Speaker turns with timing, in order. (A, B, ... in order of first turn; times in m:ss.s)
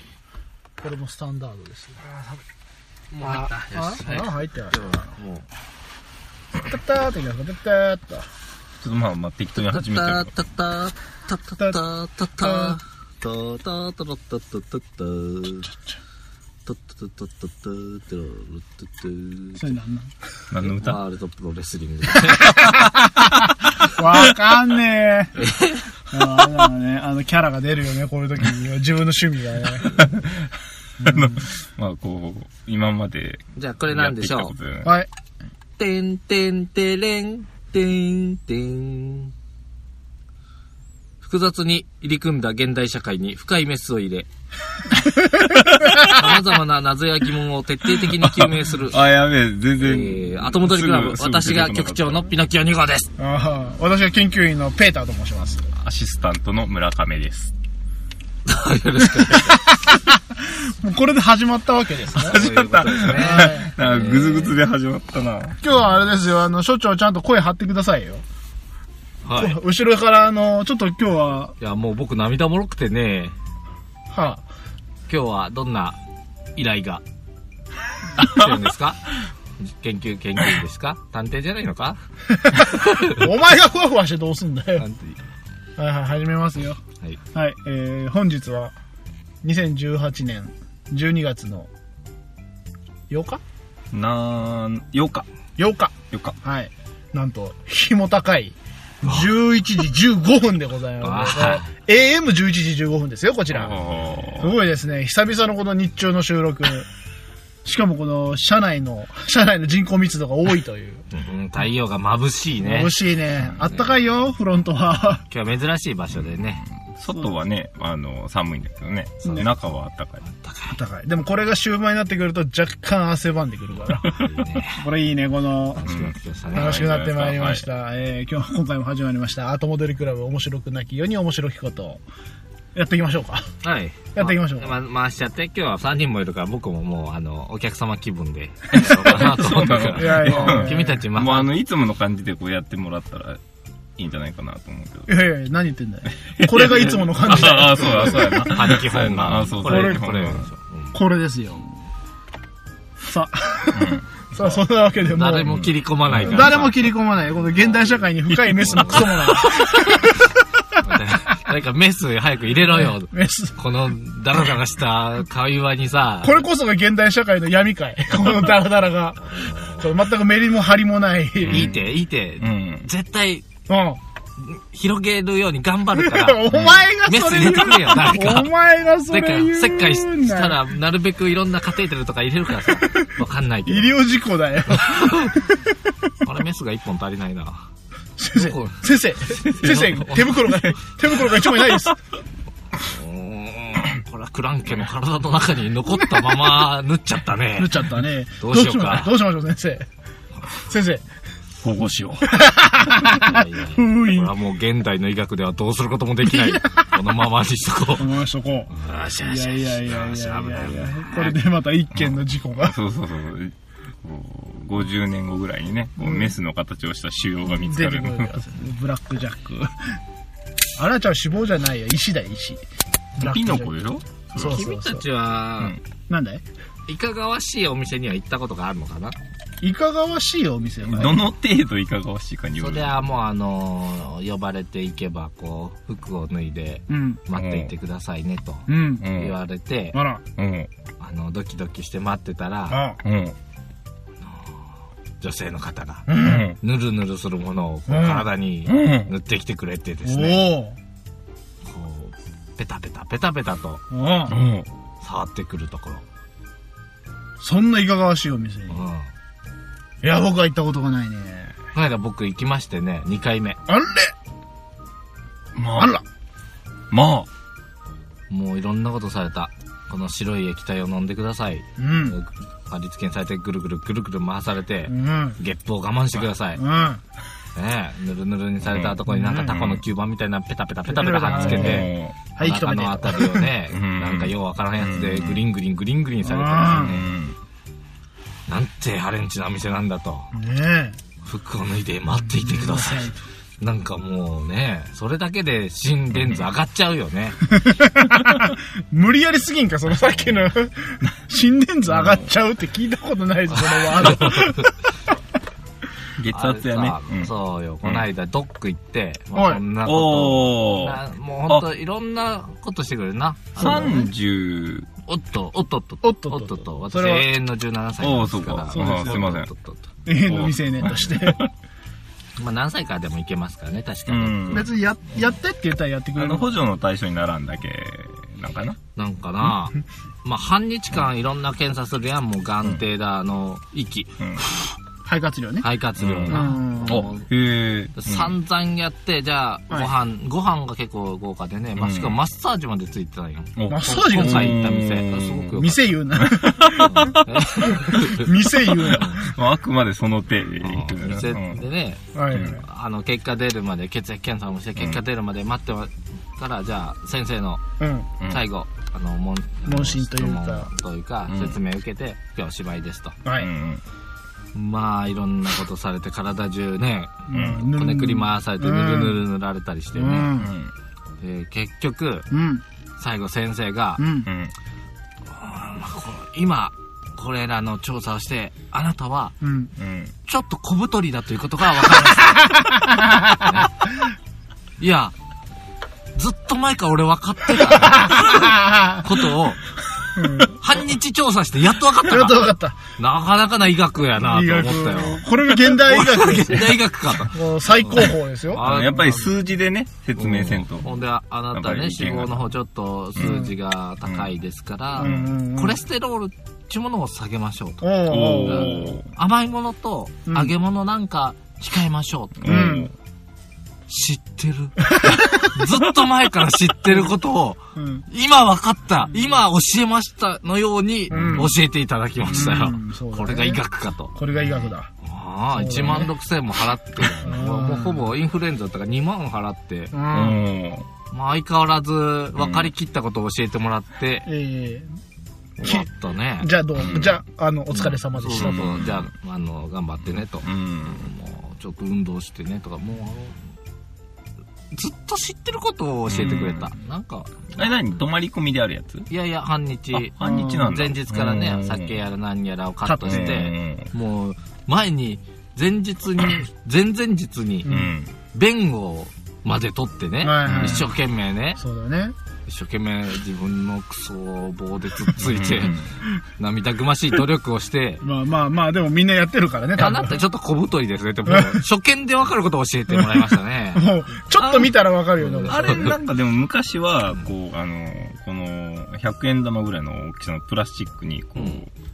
0:00.8-0:02.2 A
0:03.1-0:05.5 B
0:03.2-0:05.1 A
0:06.5-0:08.3 A
0:08.8-0:10.3 C
0:09.6-0:15.7 B
0:12.4-0:12.7 A
0:16.6-0:19.7 B
0:19.6-0:20.1 A
0:20.5-0:21.0 C
0:20.6-0:22.8 B
0:22.6-0:25.4 A
0:25.4-0:25.9 B
0:26.1-0:30.0 A
0:31.0-0:31.4 A
0:31.0-0:34.9 C
0:33.6-0:34.5 B
0:34.8-0:35.1 A
0:35.8-0:39.3 B
0:41.2-0:44.3 B
0:45.0-0:46.1 A
0:45.7-0:46.0 C
0:46.0-0:49.0 B
0:48.0-0:52.3 C
0:49.8-0:53.1 B
0:53.2-0:55.7 A
0:55.8-0:57.5 C
0:58.4-0:59.7 B
0:59.4-1:02.4 A
1:02.2-1:04.6 B
1:02.2-1:05.6 C
1:03.1-1:03.7 A
1:05.6-1:08.2 A
1:09.2-1:09.6 B
1:09.3-1:11.5 A
1:11.6-1:13.3 B
1:14.1-1:14.4 A
1:15.1-1:16.0 B
1:16.6-1:17.0 B
1:18.2-1:23.2 B
1:22.4-1:24.8 A
1:24.8-1:25.2 B
1:25.8-1:26.8 A
1:27.3-1:28.8 A
1:29.4-1:31.7 A
1:33.1-1:33.4 A
1:33.9-1:35.3 C
1:35.6-1:43.8 A
1:41.0-1:41.6 B
1:43.5-1:44.6 C
1:44.4-1:46.9 A
1:47.6-1:51.0 A
1:51.1-1:53.0 B
1:52.6-1:55.2 A
1:55.3-1:56.6 B
1:56.8-2:00.2 C
2:00.2-2:00.8 B
2:00.7-2:04.2 A
2:04.0-2:04.8 B
2:04.7-2:05.8 A
2:05.7-2:07.0 B
2:05.8-2:07.6 C
2:06.5-2:12.0 A
2:12.7-2:13.5 A
2:13.6-2:21.5 B
2:14.2-2:14.7 A
2:18.7-2:23.4 C
2:19.9-2:21.0 A
2:24.0-2:25.1 C
2:25.1-2:28.6 A
2:26.3-2:30.4 C
2:27.2-2:31.0 B
2:29.6-2:30.0 A
2:30.9-2:31.7 A
2:33.0-2:35.5 A
2:33.7-2:34.2 C
2:35.0-2:36.9 B
2:35.4-2:36.5 C
2:36.2-2:40.4 A
2:37.6-2:40.1 B
2:40.8-2:46.4 B
2:43.1-2:43.5 A
2:46.2-2:51.7 A
2:49.2-2:49.9 B
2:51.4-2:51.9 C
2:51.5-2:53.4 B
2:52.4-2:52.9 C
2:53.7-2:54.0 A
2:54.4-2:58.5 B
2:56.0-3:00.6 A
2:56.5-2:56.8 C
2:59.1-3:04.0 B
3:03.6-3:05.7 A
3:04.7-3:05.4 B
3:06.2-3:07.7 B
3:08.2-3:12.0 A
3:08.3-3:10.7 B
3:12.7-3:19.2 B
3:17.6-3:19.9 A
3:20.5-3:21.0 A
3:21.6-3:22.4 C
3:22.2-3:24.3 A
3:23.0-3:28.2 B
3:26.2-3:26.9 A
3:28.0-3:28.7 A
3:28.7-3:31.4 B
3:29.2-3:32.8 A
3:31.9-3:38.4 C
3:36.0-3:36.3 A
3:37.6-3:40.0 A
3:40.8-3:42.6 A
3:43.2-3:43.7 A
3:43.2-3:44.6 C
3:44.3-3:45.0 A
3:44.4-3:45.8 B
3:46.1-3:46.4 A
3:46.9-3:49.2 B
3:49.6-3:51.2 A
3:50.8-3:52.9 C
3:52.6-4:00.0 B
3:56.9-3:57.2 A
3:57.3-3:57.7 C
3:58.7-3:59.0 A
3:59.0-3:59.4 C
3:59.9-4:00.2 A
4:00.4-4:00.7 C
4:01.0-4:02.8 B
4:02.7-4:03.0 A
4:03.0-4:03.4 C
4:04.2-4:04.6 B
4:05.2-4:06.1 B
4:06.1-4:06.5 A
4:06.2-4:06.6 C
4:06.6-4:10.5 B
4:07.9-4:08.3 A
4:08.6-4:09.1 C
4:10.0-4:10.8 A
4:11.6-4:13.8 B
4:13.9-4:14.3 A
4:14.3-4:14.7 C
4:15.0-4:16.0 B
4:17.4-4:18.8 A
4:18.7-4:19.1 B
4:20.0-4:21.6 A
4:21.7-4:23.6 B
4:23.7-4:24.1 A
4:25.6-4:25.9 C
4:25.7-4:26.0 A
4:26.9-4:27.3 C
4:28.3-4:36.6 B
4:31.8-4:32.2 A
4:34.9-4:35.4 A
4:36.6-4:37.0 A
4:37.5-4:47.0 B
4:38.6-4:39.8 C
4:40.9-4:43.4 A
4:41.3-4:42.2 C
4:43.7-4:45.4 C
4:46.2-4:47.0 A
4:46.7-4:47.4 C
4:48.5-4:50.3 B
4:50.3-4:51.0 A
4:51.2-4:57.6 B
4:52.3-4:53.2 A
4:56.1-4:56.4 C
4:57.5-5:04.8 A
5:01.9-5:02.3 C
5:03.5-5:04.7 B
5:06.2-5:07.3 C
5:06.3-5:14.1 B
5:09.3-5:09.6 A
5:09.8-5:11.6 C
5:13.6-5:14.9 C
5:13.6-5:14.1 A
5:15.0-5:19.9 B
5:16.0-5:17.2 A
5:18.0-5:19.5 C
5:18.7-5:19.3 A
5:20.0-5:21.4 A
5:20.3-5:21.5 C
5:22.4-5:24.7 B
5:24.1-5:24.7 C
5:24.5-5:26.6 A
5:26.2-5:28.8 C
5:29.0-5:34.7 B
5:35.0-5:35.6 A
5:35.6-5:37.3 B
5:36.0-5:38.3 C
5:36.3-5:37.0 A
5:38.0-5:45.9 B
5:41.8-5:42.2 C
5:43.6-5:45.5 C
5:43.7-5:44.6 A
5:45.5-5:47.1 A
5:46.2-5:47.2 C
5:46.7-5:49.2 B
5:47.7-5:49.3 A
5:48.9-5:51.6 C
5:50.6-5:57.6 B
5:52.1-5:52.6 A
5:52.3-5:52.6 C
5:57.8-5:58.1 A
5:58.3-6:03.2 B
5:59.6-6:00.7 A
6:01.3-6:01.6 C
6:03.4-6:03.8 C
6:04.5-6:10.3 B
6:07.3-6:09.2 A
6:07.3-6:07.7 C
6:09.9-6:10.5 A
6:10.4-6:10.7 C
6:11.2-6:12.3 B
6:12.3-6:12.6 A
6:13.0-6:14.0 B
6:14.0-6:14.3 A
6:14.2-6:14.5 C
6:15.3-6:19.4 B
6:19.4-6:19.7 A
6:19.8-6:20.1 C
6:20.2-6:22.6 B
6:22.1-6:23.4 A
6:23.4-6:23.7 B
6:24.8-6:25.1 B
6:26.1-6:29.6 B
6:27.6-6:29.1 A
6:30.2-6:30.6 A
6:30.4-6:39.3 B
6:32.0-6:32.8 A
6:34.2-6:38.6 A
6:38.6-6:40.9 C
6:40.2-6:52.7 B
6:41.5-6:42.4 C
6:43.2-6:43.4 C
6:43.2-6:43.5 A
6:45.0-6:45.8 A
6:45.0-6:45.3 C
6:47.8-6:48.9 A
6:48.1-6:49.1 C
6:50.3-6:50.5 A
6:52.4-6:52.9 C
6:52.4-6:52.9 A
6:53.9-7:09.9 B
6:54.9-6:55.6 A
6:57.8-6:58.0 A
7:01.1-7:01.5 C
7:01.1-7:01.5 A
7:02.2-7:03.6 A
7:04.1-7:04.9 A
7:05.5-7:06.1 A
7:07.0-7:08.0 A
7:09.9-7:10.4 A
7:10.1-7:10.9 C
7:11.1-7:14.3 B
7:12.4-7:12.7 C
7:14.2-7:14.9 A
7:15.6-7:17.0 B
7:15.6-7:15.9 A
7:16.4-7:18.8 A
7:16.8-7:17.2 C
7:17.7-7:23.4 B
7:18.3-7:19.1 C
7:20.1-7:21.1 C
7:24.7-7:27.7 B
7:26.1-7:26.7 C
7:27.6-7:29.1 C
7:29.1-7:37.7 B
7:29.9-7:32.0 C
7:30.2-7:30.6 A
7:32.8-7:33.4 A
7:33.0-7:33.9 C
7:37.6-7:37.9 A
7:37.6-7:38.1 C
7:38.3-7:41.6 B
7:40.2-7:40.9 A
7:40.4-7:40.9 C
7:41.6-7:42.1 A
7:42.5-7:45.8 B
7:45.2-7:45.9 C
7:46.4-7:48.0 B
7:48.0-7:50.2 A
7:49.8-7:56.0 B
7:51.2-7:51.6 A
7:53.7-7:56.0 A
7:55.4-8:01.7 C